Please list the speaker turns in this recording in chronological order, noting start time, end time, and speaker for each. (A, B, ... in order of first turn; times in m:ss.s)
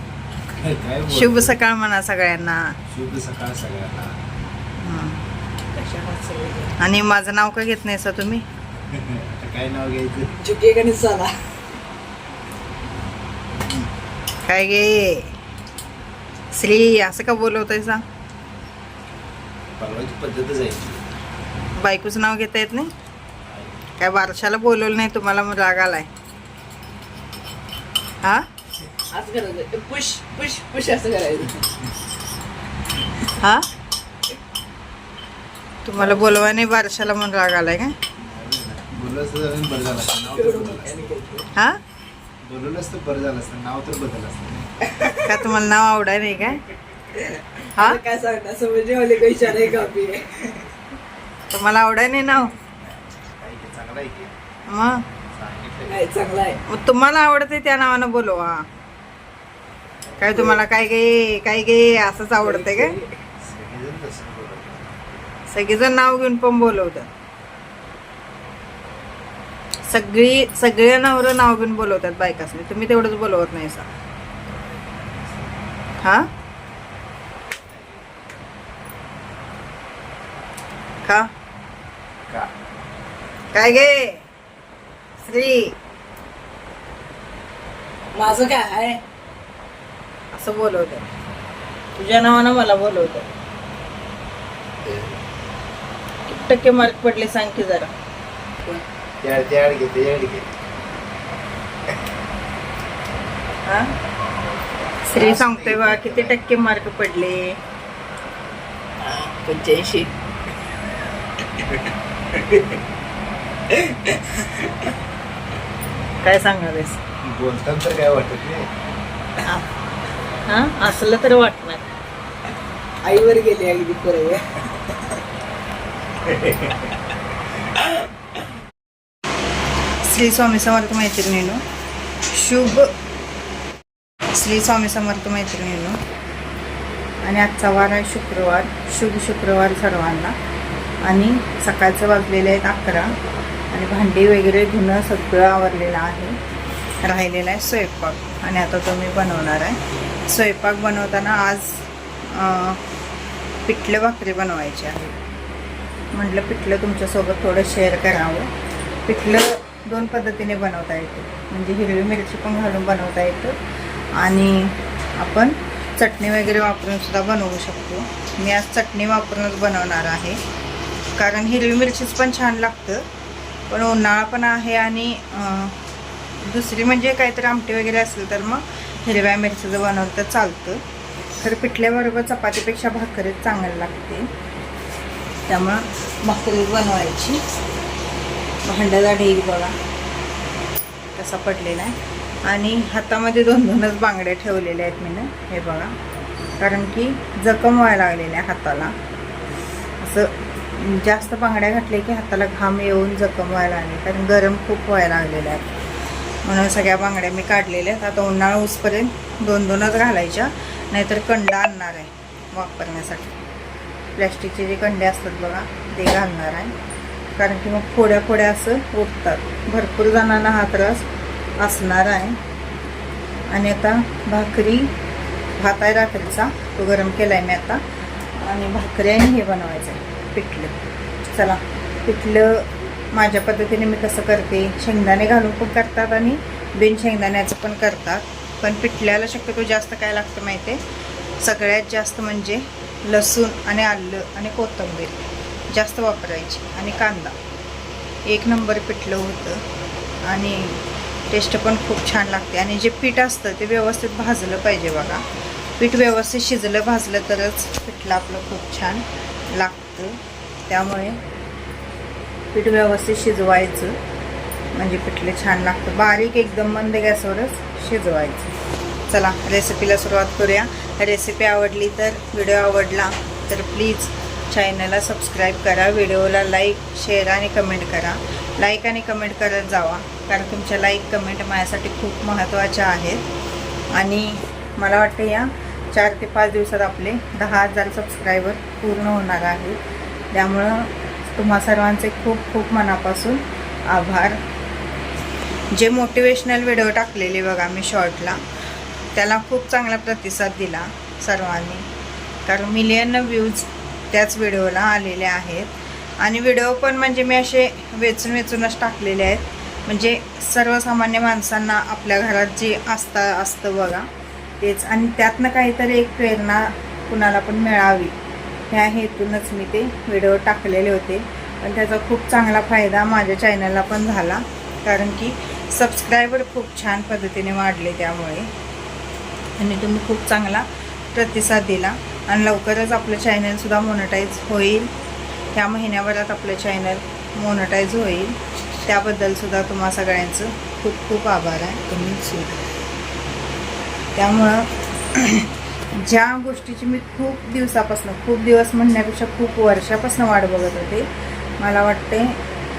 0:00.5-0:01.6 A
0:01.1-0:02.8 B
0:02.9-0:04.2 A
0:04.8-0:05.2 B
0:05.8-0:06.7 C
0:06.8-0:08.4 B
0:08.9-0:10.3 A
0:10.4-0:11.3 C
0:14.4-0:15.4 B
0:16.5-0:18.0 B
0:19.8-0:21.0 A
0:21.8-0:22.9 B
0:23.5-0:23.8 A
0:24.0-0:26.1 B
0:29.1-0:31.6 C
0:33.3-0:33.7 B
0:35.8-0:38.0 B
0:36.0-0:36.4 A
0:38.2-0:41.0 A
0:40.2-0:41.5 C
0:41.5-0:41.8 B
0:42.4-0:44.7 A
0:44.9-0:45.4 C
0:45.2-0:46.6 B
0:47.2-0:50.7 C
0:47.8-0:48.0 B
0:51.5-0:52.5 B
0:52.6-0:54.3 A
0:54.7-0:55.0 B
0:55.4-0:56.1 A
0:55.9-0:56.6 C
0:56.7-0:58.6 B
1:00.2-1:03.0 B
1:02.4-1:03.1 C
1:03.4-1:05.2 A
1:05.5-1:07.1 B
1:09.9-1:13.9 B
1:14.8-1:15.6 A
1:16.0-1:16.3 B
1:17.5-1:18.1 A
1:21.0-1:21.3 B
1:23.5-1:24.3 B
1:25.3-1:25.8 B
1:28.1-1:29.0 C
1:30.3-1:31.1 B
1:32.0-1:33.3 B
1:34.8-1:35.2 A
1:36.3-1:37.9 B
1:39.2-1:40.5 A
1:43.6-1:43.9 B
1:45.0-1:47.6 B
1:45.1-1:46.4 A
1:49.0-1:50.1 C
1:53.7-1:54.7 C
1:56.2-1:57.0 B
1:57.2-1:58.7 A
1:59.4-1:59.7 B
2:00.5-2:01.9 B
2:03.0-2:04.8 C
2:06.3-2:06.7 A
2:10.0-2:11.6 B
2:12.3-2:12.9 B
2:14.3-2:16.0 B
2:17.2-2:20.4 B
2:21.0-2:23.2 B
2:23.7-2:26.4 B
2:27.0-2:32.8 B
2:33.7-2:35.2 B
2:36.1-2:38.5 B
2:39.1-2:43.6 B
2:44.2-2:50.4 B
2:51.2-2:53.1 B
2:53.7-2:55.8 B
2:56.4-3:00.8 B
3:01.4-3:04.3 B
3:05.5-3:07.4 B
3:08.6-3:09.8 B
3:11.2-3:16.0 B
3:16.6-3:19.0 B
3:20.0-3:25.8 B
3:26.4-3:33.4 B
3:34.1-3:36.7 B
3:37.4-3:41.0 B
3:41.6-3:42.4 B
3:43.5-3:44.9 B
3:45.6-3:47.8 B
3:48.4-3:50.8 B
3:51.3-4:00.8 B
4:01.4-4:05.2 B
4:05.7-4:07.4 B
4:08.3-4:09.6 B
4:10.3-4:15.2 B
4:15.8-4:21.2 B
4:22.5-4:24.0 B
4:24.7-4:28.6 B
4:29.1-4:43.3 B
4:43.9-4:49.8 B
4:50.3-4:54.4 B
4:55.7-4:58.4 B
4:59.1-5:01.9 B
5:02.4-5:14.1 B
5:14.6-5:18.2 B
5:18.7-5:28.5 B
5:29.6-5:34.9 B
5:35.5-5:42.6 B
5:44.2-5:52.4 B